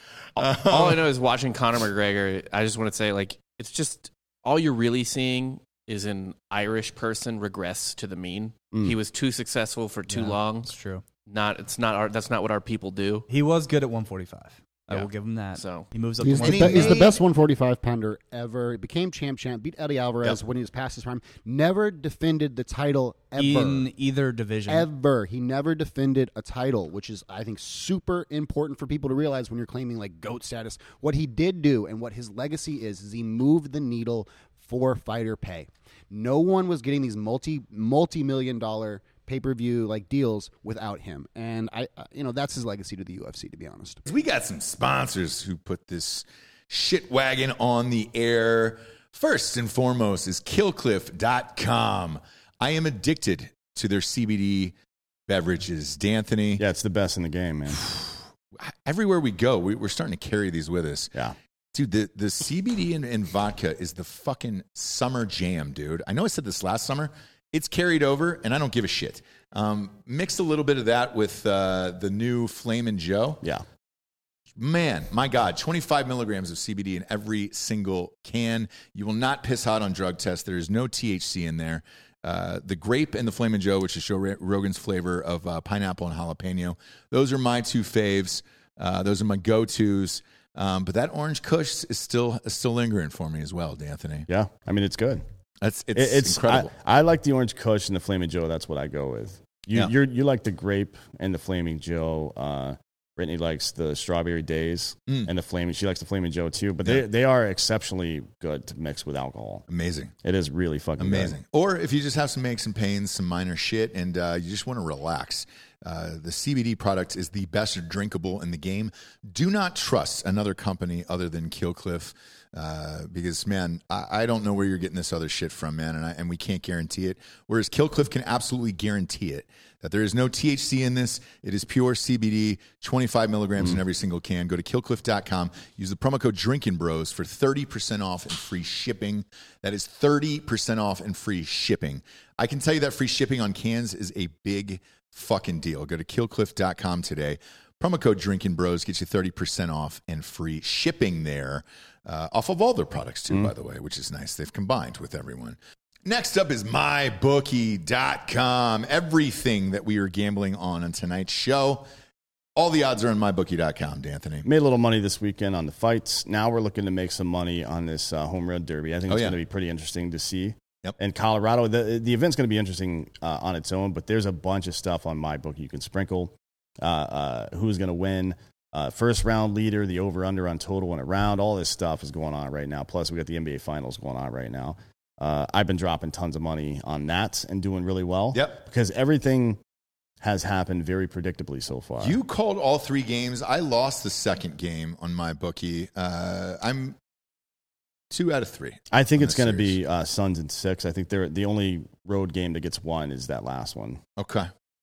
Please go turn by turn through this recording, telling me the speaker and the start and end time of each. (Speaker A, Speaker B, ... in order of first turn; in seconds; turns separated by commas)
Speaker A: 0.4-1.0, Speaker B: 0.4-10.7, Speaker C: 10.1-11.0, Speaker B: 11.3-13.3, Speaker C: 13.3-17.1, Speaker B: 14.9-15.9, Speaker D: 16.2-23.9, Speaker A: 16.4-17.2, Speaker C: 23.4-24.9, Speaker D: 24.7-44.0, Speaker A: 44.0-54.8, Speaker A: 55.3-56.6, Speaker E: 56.6-57.9, Speaker A: 58.6-61.1, Speaker A: 61.7-73.4, Speaker A: 74.6-94.3, Speaker E: 94.3-95.2, Speaker A: 95.6-96.7, Speaker E: 95.9-109.6, Speaker A: 109.7-110.1, Speaker E: 110.2-111.4, Speaker A: 111.0-161.9, Speaker A: 162.6-164.5, Speaker E: 164.4-189.6, Speaker A: 169.1-169.4, Speaker A: 188.3-188.6, Speaker E: 190.2-192.2, Speaker A: 192.0-197.0, Speaker A: 198.1-199.8, Speaker E: 198.9-204.0, Speaker A: 204.2-204.5